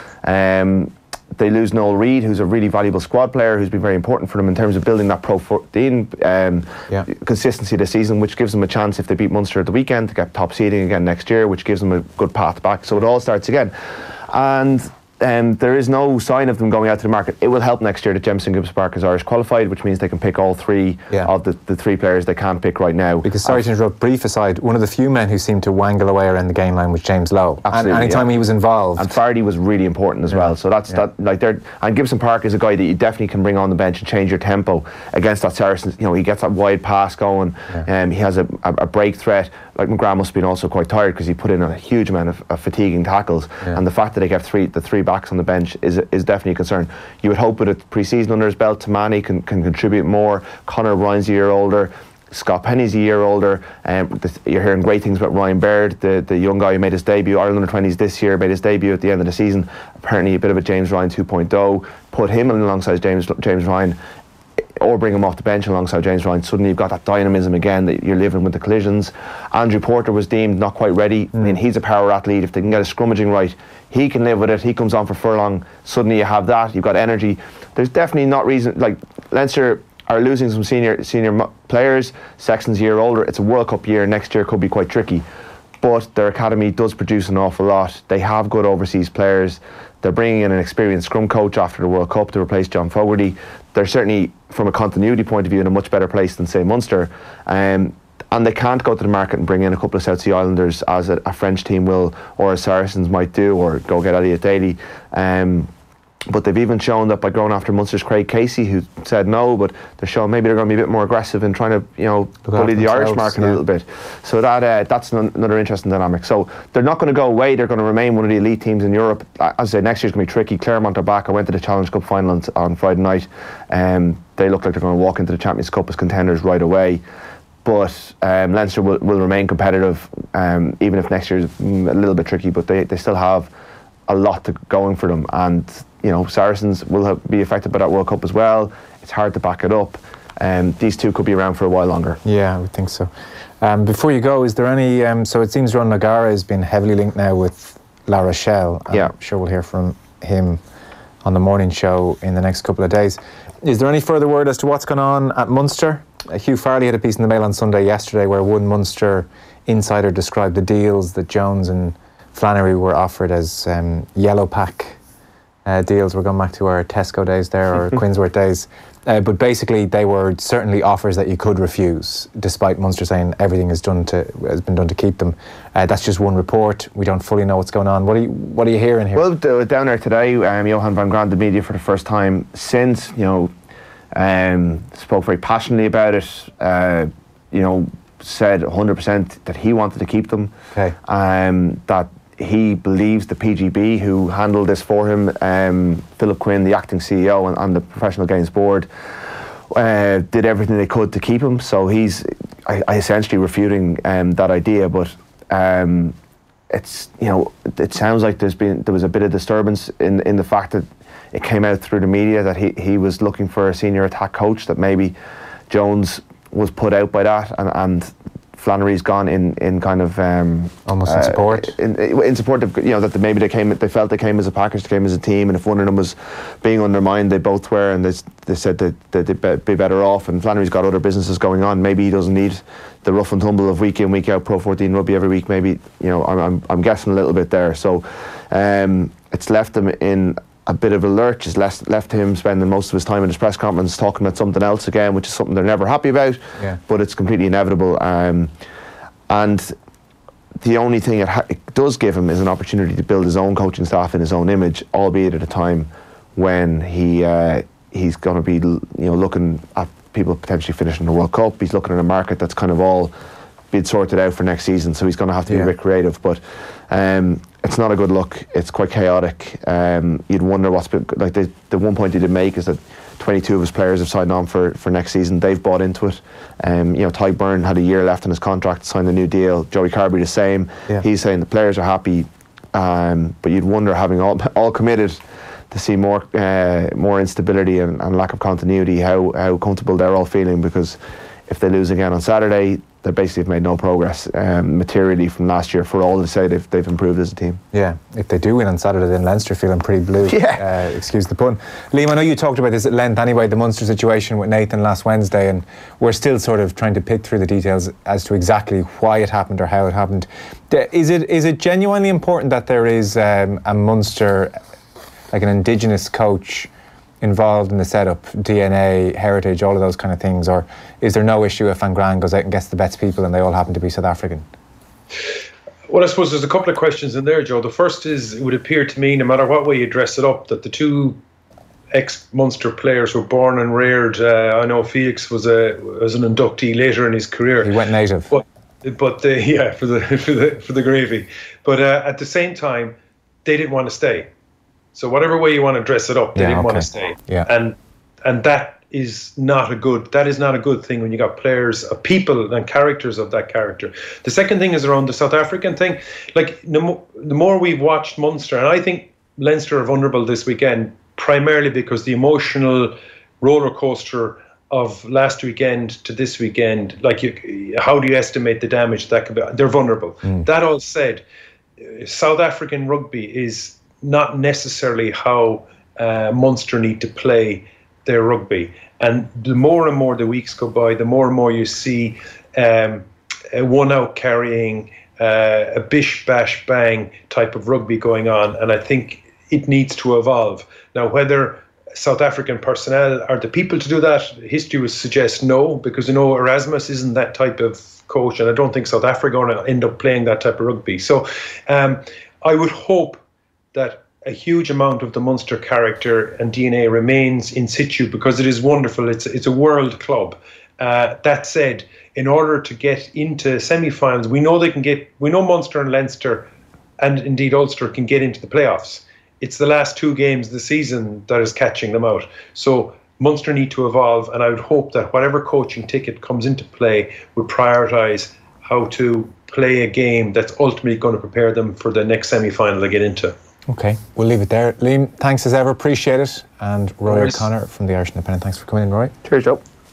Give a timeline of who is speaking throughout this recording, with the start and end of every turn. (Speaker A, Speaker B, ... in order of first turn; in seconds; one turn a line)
Speaker A: 0.2-23.6
Speaker B: 23.2-29.1
Speaker A: 27.6-28.3
Speaker A: 29.0-64.0
Speaker B: 30.3-31.0
Speaker A: 64.8-85.2
Speaker A: 85.8-105.7
Speaker A: 106.3-127.0
Speaker B: 112.5-113.6
Speaker A: 127.6-133.5
Speaker A: 134.1-142.2
Speaker B: 142.2-150.6
Speaker B: 151.2-165.0
Speaker B: 165.7-179.2
Speaker A: 179.1-183.5
Speaker A: 184.1-198.9
Speaker A: 199.7-206.2
Speaker A: 206.7-215.1
Speaker A: 215.7-248.5
Speaker B: 220.9-221.7
Speaker A: 249.3-249.7
Speaker A: 250.6-263.1
Speaker A: 263.7-285.2
Speaker A: 285.7-297.6
Speaker B: 297.7-314.6
Speaker A: 300.2-300.6
Speaker B: 315.3-316.7
Speaker B: 317.2-324.4
Speaker C: 325.9-331.2
Speaker C: 331.9-337.7
Speaker B: 337.6-338.3
Speaker C: 338.3-344.3
Speaker C: 344.9-371.2
Speaker B: 346.3-347.5
Speaker C: 371.8-403.2
Speaker C: 403.7-433.3
Speaker B: 433.7-439.1
Speaker C: 437.1-437.4
Speaker A: 439.2-439.6